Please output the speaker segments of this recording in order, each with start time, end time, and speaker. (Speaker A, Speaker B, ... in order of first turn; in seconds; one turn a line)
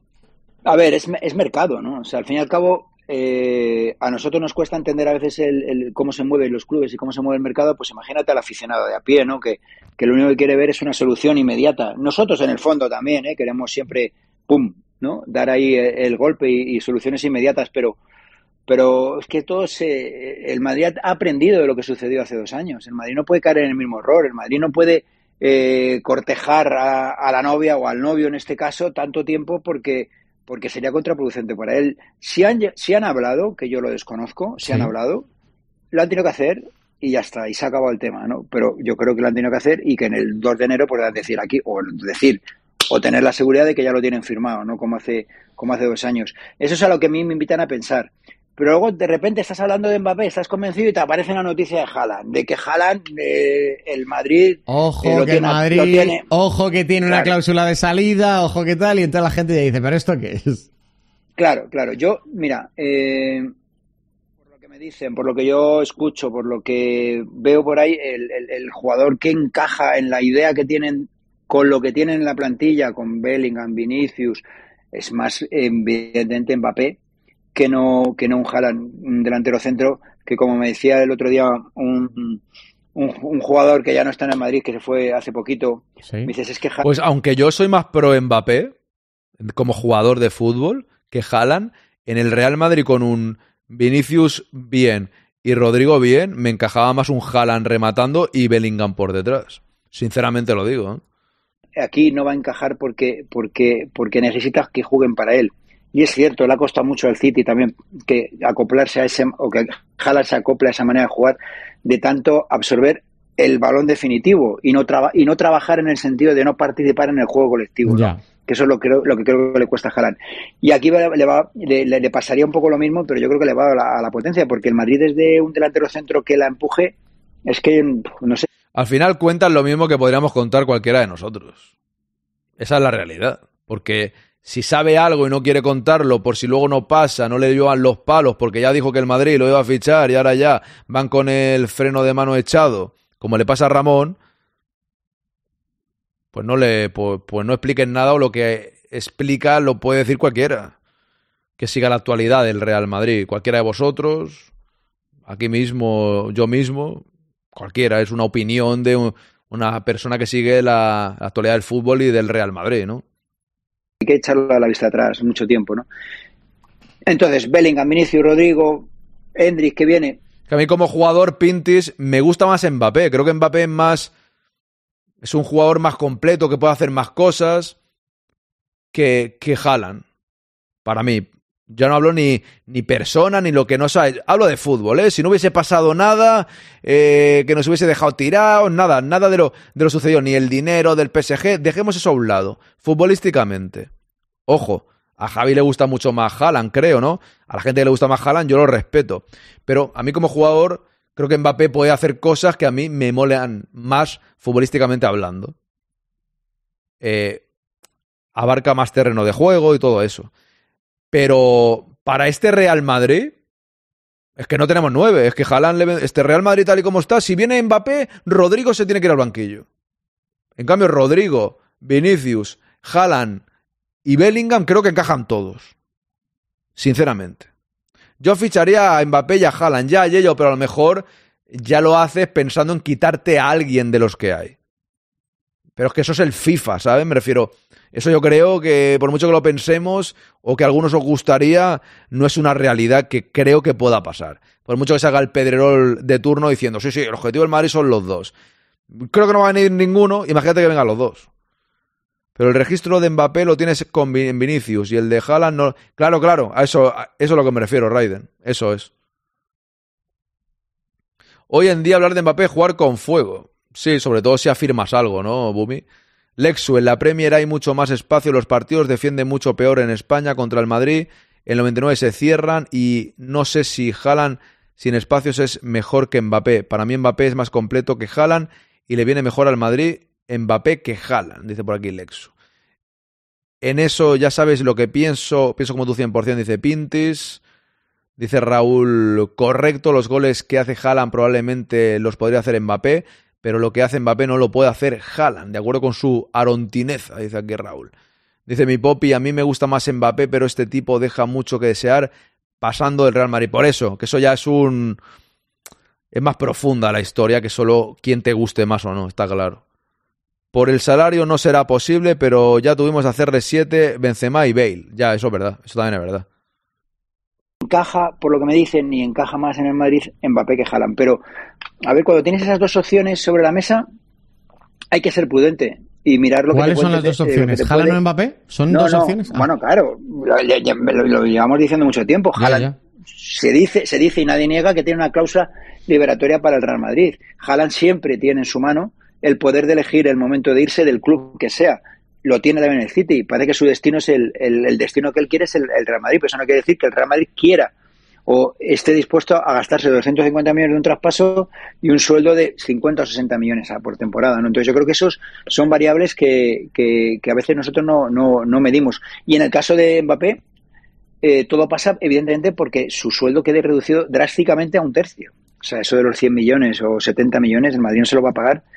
Speaker A: 0.6-18.0
Speaker A: 18.7-35.2
Speaker B: 34.6-34.9
Speaker A: 35.9-56.2
Speaker B: 54.7-60.6
Speaker A: 57.0-57.3
Speaker A: 61.4-63.5
Speaker A: 64.6-77.0
Speaker A: 77.5-82.4
Speaker A: 83.0-86.8
Speaker B: 86.0-86.3
Speaker C: 86.8-88.7
Speaker C: 89.4-101.0
Speaker A: 101.8-126.9
Speaker B: 117.8-118.2
Speaker A: 127.5-128.5
Speaker C: 128.7-131.7
Speaker C: 132.6-144.2
Speaker C: 146.3-150.7
Speaker C: 151.6-154.5
Speaker C: 155.3-163.0
Speaker A: 164.0-165.9
Speaker A: 167.1-170.2
Speaker C: 170.5-174.1
Speaker C: 175.2-177.7
Speaker C: 178.9-180.0
Speaker C: 180.8-193.9
Speaker C: 194.5-205.5
Speaker C: 207.0-207.4
Speaker C: 208.3-210.3
Speaker C: 211.1-213.3
Speaker C: 214.4-219.6
Speaker C: 220.6-223.4
Speaker C: 224.0-225.7
Speaker C: 226.8-227.5
Speaker C: 228.2-234.5
Speaker C: 235.8-248.3
Speaker C: 248.9-251.2
Speaker C: 252.3-258.9
Speaker C: 261.5-265.8
Speaker C: 266.4-282.3
Speaker C: 283.6-287.4
Speaker C: 288.2-297.9
Speaker C: 298.5-305.0
Speaker C: 306.1-309.6
Speaker C: 310.5-316.2
Speaker A: 317.6-321.2
Speaker A: 321.9-323.9
Speaker A: 324.9-328.0
Speaker B: 326.5-329.5
Speaker A: 328.7-347.7
Speaker B: 332.4-332.7
Speaker A: 348.3-360.4
Speaker A: 361.2-368.6